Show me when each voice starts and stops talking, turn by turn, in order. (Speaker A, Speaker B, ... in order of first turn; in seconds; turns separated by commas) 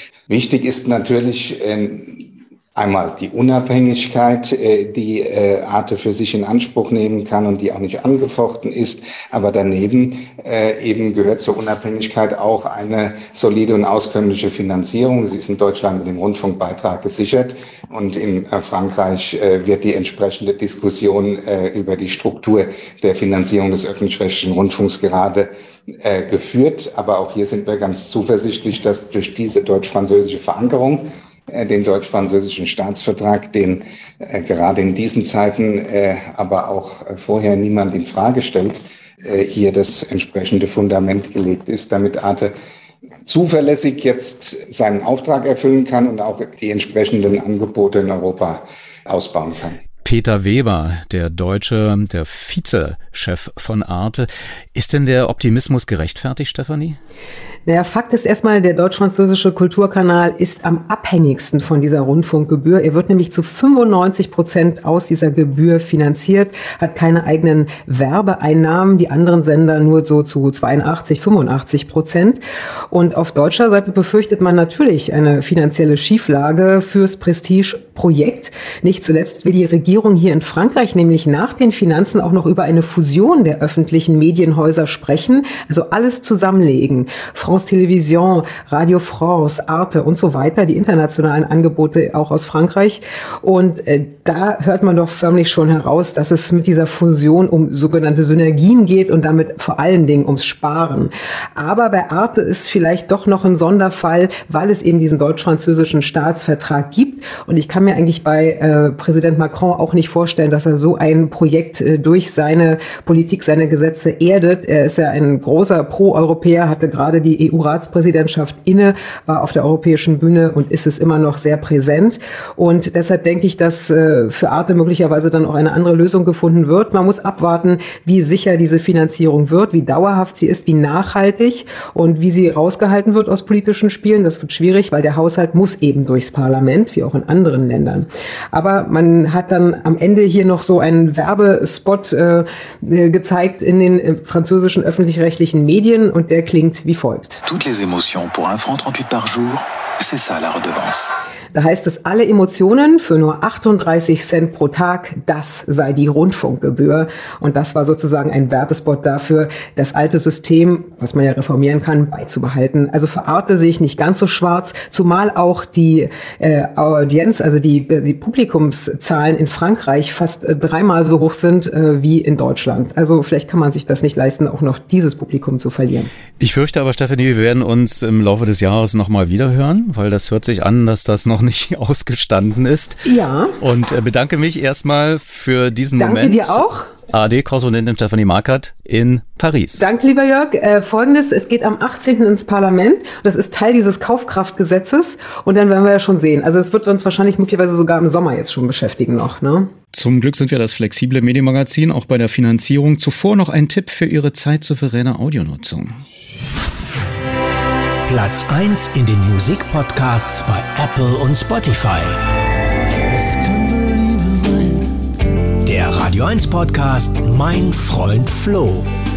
Speaker A: 0.3-42.5, Speaker A: 43.2-49.8, Speaker B: 50.0-57.0, Speaker C: 57.6-147.4, Speaker D: 147.4-151.1, Speaker C: 151.5-176.1, Speaker B: 176.4-183.0, Speaker C: 183.0-183.5, Speaker B: 183.6-189.8, Speaker C: 186.0-186.9, Speaker C: 189.8-199.7, Speaker B: 199.9-206.0, Speaker E: 208.0-212.2, Speaker E: 215.6-218.9